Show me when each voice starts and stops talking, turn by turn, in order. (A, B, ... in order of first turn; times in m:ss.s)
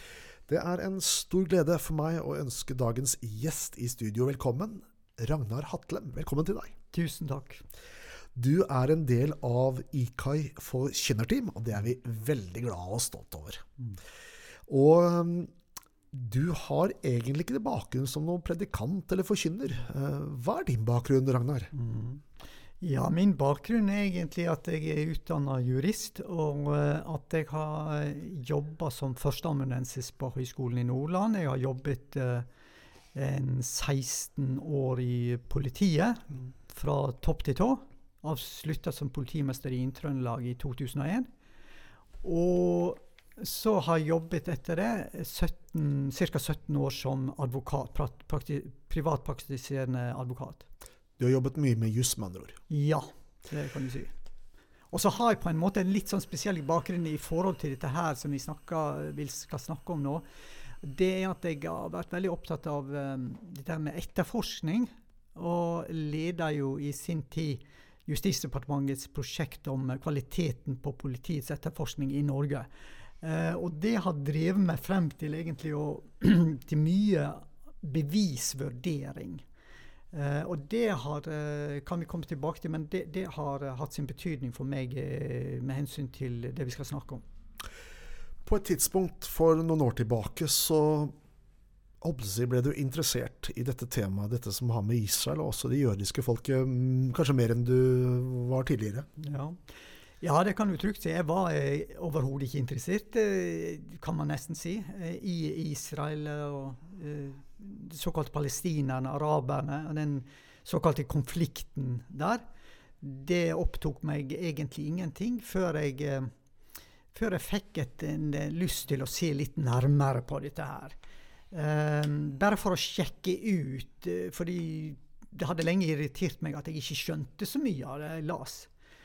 0:00.5-0:06.7 A
0:06.9-0:07.6 B
0:08.4-0:13.6 A
0:14.7-0:15.5 A
0:16.1-0:21.7 A
0:21.7-0:22.2 B
0:22.8-0:32.5 B
0:33.1-0:41.3 B
0:42.2-0:50.6 B
0:51.2-0:52.6 A
0:52.7-0:54.1 B
0:54.9-1:00.3 B
1:00.8-1:12.7 B
1:13.2-1:19.4 B
1:20.1-1:27.2 B
1:28.4-1:31.2 A
1:32.0-1:39.1 A
1:39.2-1:39.6 B
1:40.2-1:52.4 B
1:53.0-1:56.3 B
1:57.1-2:01.0 B
2:01.5-2:08.7 B